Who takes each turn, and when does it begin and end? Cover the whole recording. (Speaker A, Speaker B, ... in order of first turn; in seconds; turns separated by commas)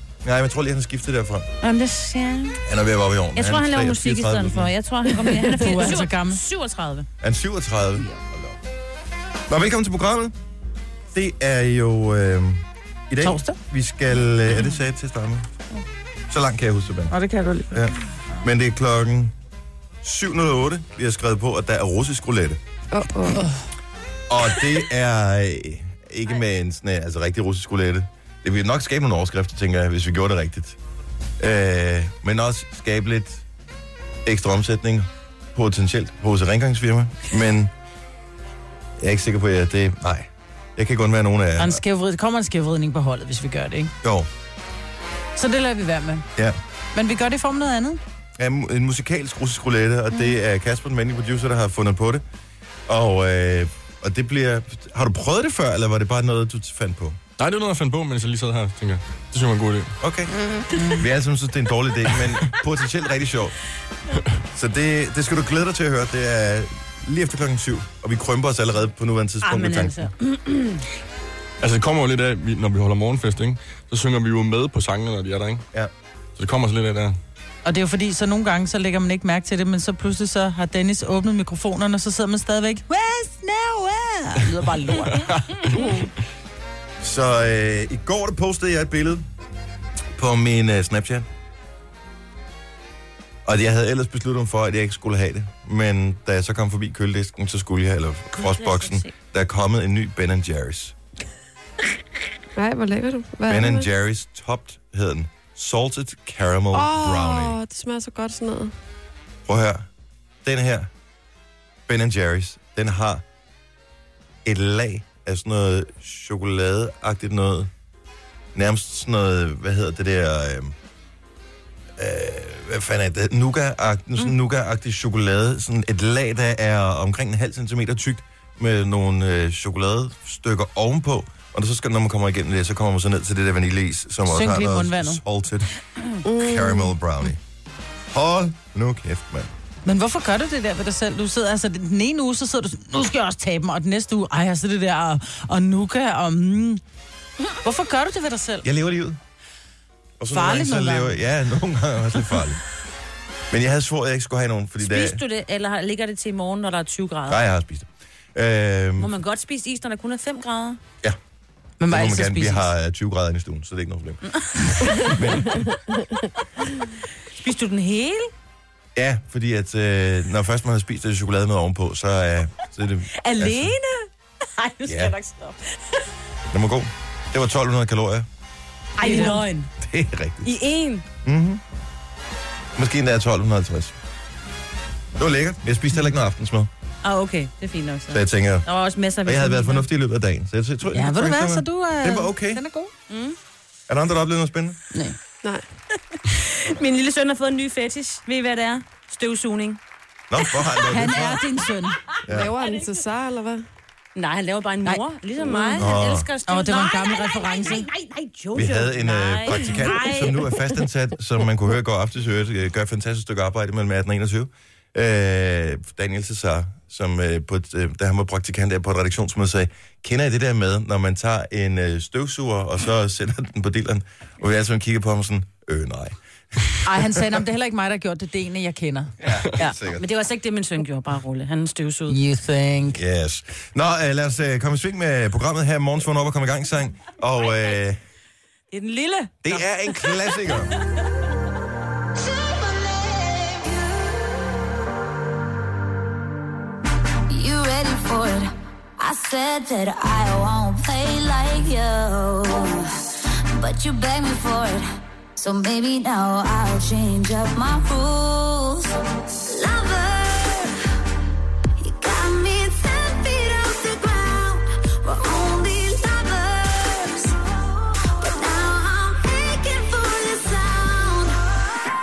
Speaker A: 0.2-1.5, Speaker B: 1.6-2.6, Speaker A: 2.6-4.7, Speaker B: 3.3-7.1, Speaker C: 5.5-6.4, Speaker A: 7.2-8.6, Speaker A: 9.5-10.3, Speaker A: 11.1-15.5, Speaker C: 13.2-13.6, Speaker A: 16.3-17.1, Speaker C: 17.1-17.8, Speaker A: 17.7-19.3, Speaker A: 20.0-22.6, Speaker D: 22.9-23.4, Speaker C: 23.3-23.6, Speaker A: 24.3-30.8, Speaker A: 31.4-33.4, Speaker A: 34.2-37.7, Speaker A: 39.0-41.8, Speaker C: 41.6-43.9, Speaker A: 44.0-44.3, Speaker C: 45.4-46.2, Speaker C: 46.9-48.0, Speaker A: 48.4-52.2, Speaker A: 52.9-57.2, Speaker E: 57.4-59.9, Speaker A: 60.0-60.3, Speaker C: 60.7-61.0, Speaker A: 60.9-63.5, Speaker A: 64.5-70.0, Speaker B: 69.4-70.8, Speaker E: 71.6-75.6, Speaker E: 76.4-77.2, Speaker C: 77.6-85.3, Speaker D: 85.8-86.0, Speaker A: 87.0-89.2, Speaker A: 90.2-91.3, Speaker A: 93.4-100.9, Speaker B: 98.3-99.1, Speaker D: 102.5-103.9, Speaker A: 103.5-107.6, Speaker D: 106.7-108.7, Speaker A: 109.5-109.9, Speaker A: 110.4-110.9, Speaker A: 111.9-113.2, Speaker A: 114.4-117.7, Speaker A: 118.5-120.7, Speaker A: 122.0-135.7, Speaker C: 134.3-135.2, Speaker D: 136.2-136.9, Speaker A: 136.4-137.4, Speaker A: 138.1-139.5, Speaker C: 139.8-146.8, Speaker C: 147.6-148.7, Speaker A: 148.6-149.2, Speaker A: 150.2-152.6, Speaker C: 150.3-151.2, Speaker A: 153.5-155.2, Speaker B: 154.8-157.4, Speaker A: 157.3-159.1, Speaker B: 159.0-160.8, Speaker C: 161.8-162.7, Speaker A: 161.9-164.2, Speaker A: 164.9-165.8, Speaker B: 167.3-168.3, Speaker A: 168.9-173.7, Speaker B: 173.2-175.6, Speaker A: 174.8-175.1, Speaker A: 176.5-178.3, Speaker B: 179.0-179.7, Speaker C: 179.0-179.4, Speaker A: 179.8-180.6, Speaker B: 180.4-181.0, Speaker A: 181.2-181.6, Speaker A: 182.8-183.9, Speaker A: 185.2-186.7, Speaker B: 187.0-189.8, Speaker A: 188.1-188.7, Speaker A: 189.2-192.6, Speaker C: 190.9-192.9, Speaker B: 193.1-193.3, Speaker A: 193.9-194.8, Speaker B: 196.3-199.8, Speaker A: 200.3-201.4, Speaker C: 200.9-202.0, Speaker A: 202.2-202.5, Speaker D: 202.3-203.6, Speaker B: 204.1-210.5, Speaker D: 205.4-205.9, Speaker A: 205.8-206.3, Speaker C: 206.4-207.8, Speaker A: 208.5-227.2, Speaker C: 226.8-229.1, Speaker A: 229.2-230.0, Speaker B: 229.6-232.2, Speaker C: 232.1-233.0, Speaker A: 232.9-238.0, Speaker B: 238.7-240.3, Speaker A: 239.4-240.7, Speaker F: 242.2-244.2, Speaker F: 247.3-260.8, Speaker F: 261.8-267.4, Speaker F: 268.1-271.5